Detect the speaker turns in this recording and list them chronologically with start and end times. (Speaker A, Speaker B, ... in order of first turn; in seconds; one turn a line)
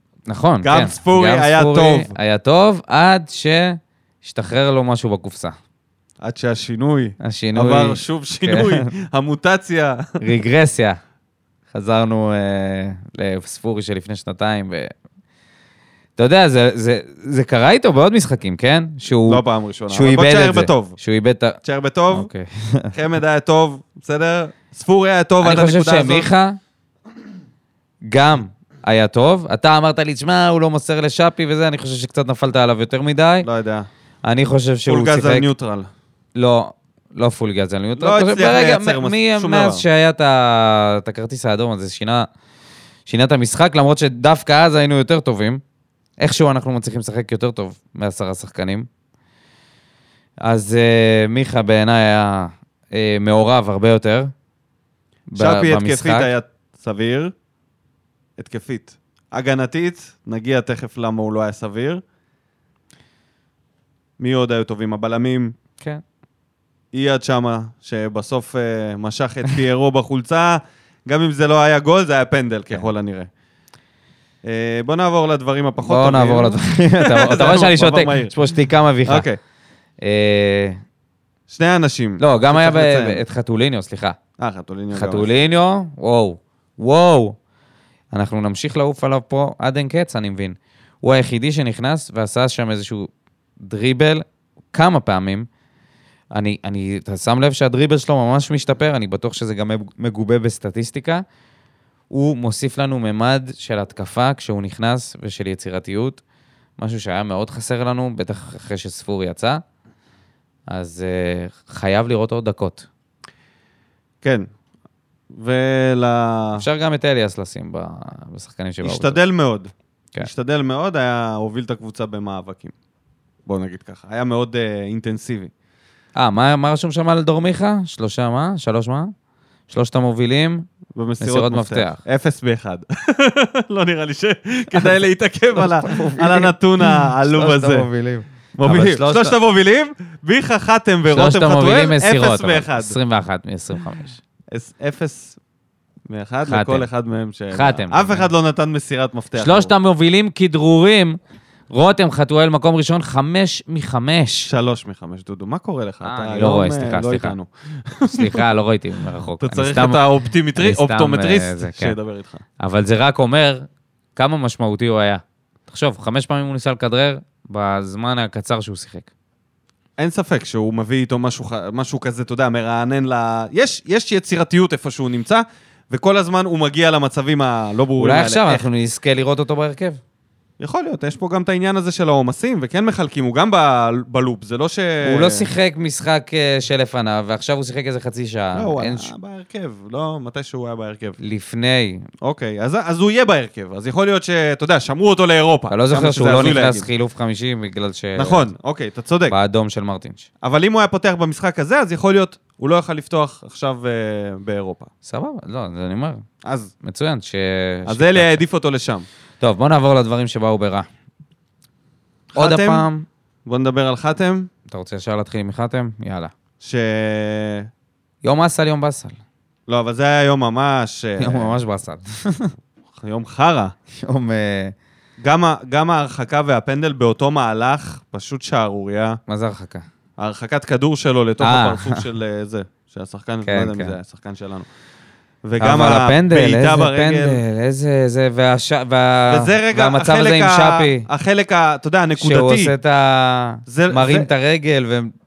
Speaker A: 0.2-5.6
Speaker B: 0.6-2.1
Speaker B: 6.2-10.2
Speaker A: 7.2-8.9
Speaker A: 10.2-11.0
Speaker A: 11.7-14.9
Speaker A: 16.2-21.6
Speaker B: 19.3-21.0
Speaker B: 21.6-22.3
Speaker A: 22.1-22.9
Speaker B: 22.9-26.3
Speaker A: 25.4-26.6
Speaker A: 28.1-33.5
Speaker B: 33.4-33.9
Speaker A: 34.2-35.5
Speaker B: 34.9-35.9
Speaker A: 36.3-42.3
Speaker B: 38.0-39.8
Speaker A: 43.1-45.6
Speaker A: 46.2-48.9
Speaker A: 50.4-54.3
Speaker A: 55.3-56.3
Speaker B: 55.3-57.3
Speaker B: 58.4-62.0
Speaker B: 64.2-65.5
Speaker B: 66.9-73.3
Speaker B: 74.4-78.4
Speaker A: 75.8-79.2
Speaker B: 79.0-79.4
Speaker A: 80.0-80.8
Speaker B: 81.5-83.2
Speaker A: 82.2-84.2
Speaker B: 84.4-85.3
Speaker A: 84.9-87.4
Speaker A: 88.1-95.5
Speaker A: 96.3-101.2
Speaker A: 102.1-106.2
Speaker A: 106.8-109.6
Speaker A: 110.7-112.9
Speaker B: 115.3-116.6
Speaker A: 116.6-119.2
Speaker B: 118.8-122.7
Speaker B: 123.5-125.5
Speaker A: 126.1-129.1
Speaker A: 129.7-130.7
Speaker B: 130.9-137.9
Speaker A: 131.2-132.0
Speaker A: 135.6-139.3
Speaker B: 138.6-142.9
Speaker A: 141.1-144.2
Speaker B: 144.5-145.4
Speaker B: 146.1-149.7
Speaker A: 146.4-146.9
Speaker A: 147.5-148.3
Speaker A: 149.3-151.2
Speaker A: 151.7-154.5
Speaker B: 154.4-158.4
Speaker A: 156.0-157.3
Speaker A: 158.1-161.9
Speaker B: 159.4-162.4
Speaker A: 162.6-169.1
Speaker B: 170.0-178.7
Speaker A: 178.0-180.0
Speaker B: 180.6-185.4
Speaker A: 185.0-189.1
Speaker B: 188.5-191.2
Speaker A: 191.2-192.0
Speaker B: 192.2-196.9
Speaker A: 195.7-198.5
Speaker B: 198.2-199.3
Speaker A: 199.3-200.2
Speaker B: 200.4-204.9
Speaker A: 205.1-206.2
Speaker B: 206.4-206.7
Speaker A: 206.8-208.4
Speaker B: 207.9-209.1
Speaker A: 209.4-210.9
Speaker B: 212.3-212.8
Speaker A: 212.4-213.1
Speaker B: 213.4-214.5
Speaker A: 214.7-216.3
Speaker B: 216.6-217.7
Speaker A: 218.2-219.2
Speaker B: 219.7-221.6
Speaker A: 221.2-222.5
Speaker B: 223.0-223.7
Speaker A: 224.0-224.7
Speaker B: 225.2-229.2
Speaker A: 229.3-229.8
Speaker B: 230.2-234.7
Speaker A: 231.4-232.0
Speaker A: 233.4-233.9
Speaker B: 235.4-237.4
Speaker A: 235.6-241.1
Speaker B: 239.3-242.7
Speaker A: 242.2-245.1
Speaker B: 243.7-244.3